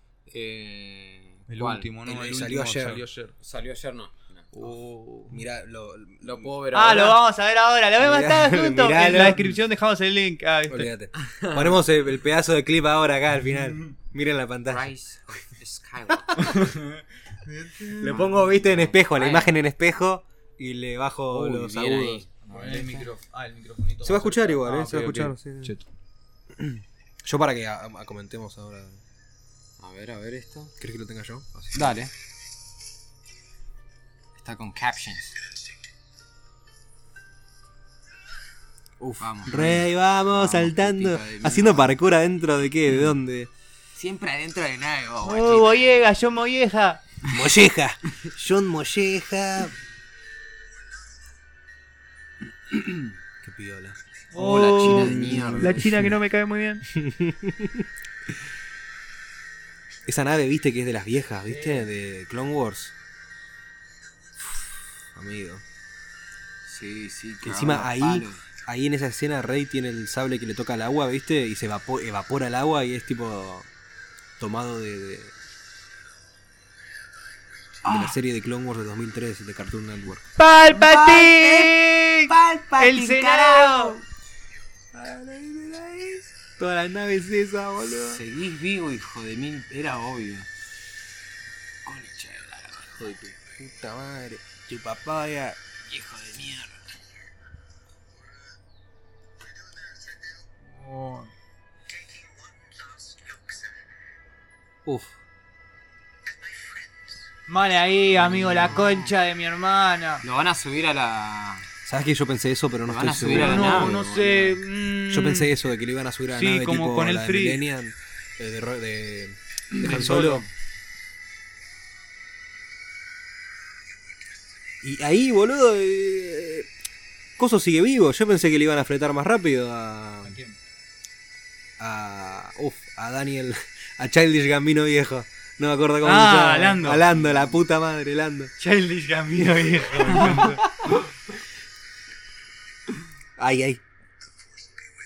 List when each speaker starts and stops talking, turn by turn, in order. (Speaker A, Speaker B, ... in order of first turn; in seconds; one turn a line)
Speaker A: 0.3-1.9
Speaker B: 1.5-3.4
Speaker C: 2.0-3.0
Speaker A: 3.4-4.5
Speaker B: 4.5-5.4
Speaker C: 5.3-6.5
Speaker A: 6.2-7.2
Speaker B: 6.7-10.9
Speaker C: 8.0-9.5
Speaker C: 10.7-14.9
Speaker A: 11.2-11.8
Speaker A: 14.7-16.5
Speaker B: 16.4-18.4
Speaker C: 18.0-22.2
Speaker A: 18.2-19.6
Speaker A: 21.3-23.1
Speaker B: 22.4-25.9
Speaker C: 24.0-25.7
Speaker C: 26.6-29.0
Speaker A: 29.8-30.8
Speaker C: 30.8-32.0
Speaker A: 31.7-32.1
Speaker A: 34.4-35.4
Speaker C: 39.0-43.5
Speaker A: 39.2-42.0
Speaker A: 44.0-46.1
Speaker B: 45.2-47.0
Speaker C: 47.2-49.8
Speaker C: 53.4-54.0
Speaker B: 54.3-56.9
Speaker A: 54.3-56.1
Speaker C: 54.8-56.1
Speaker C: 56.9-57.9
Speaker C: 60.1-63.0
Speaker B: 61.5-61.8
Speaker C: 65.1-65.6
Speaker A: 66.7-68.5
Speaker C: 67.4-73.7
Speaker C: 74.4-75.3
Speaker C: 77.8-80.3
Speaker A: 77.9-78.1
Speaker B: 80.4-84.0
Speaker A: 80.7-84.0
Speaker C: 84.9-88.2
Speaker A: 88.1-90.5
Speaker A: 91.8-93.2
Speaker C: 93.0-95.6
Speaker A: 95.9-96.8
Speaker B: 100.7-101.3
Speaker C: 104.8-105.2
Speaker B: 107.5-110.2
Speaker A: 108.3-109.1
Speaker A: 110.2-111.7
Speaker C: 111.9-114.0
Speaker A: 112.9-114.6
Speaker B: 113.3-115.5
Speaker C: 115.1-120.5
Speaker B: 116.3-117.6
Speaker B: 119.8-120.5
Speaker C: 124.8-126.7
Speaker C: 127.4-130.4
Speaker B: 130.2-130.6
Speaker C: 131.8-138.5
Speaker B: 136.0-137.1
Speaker B: 138.6-140.9
Speaker C: 140.1-140.7
Speaker C: 143.4-143.8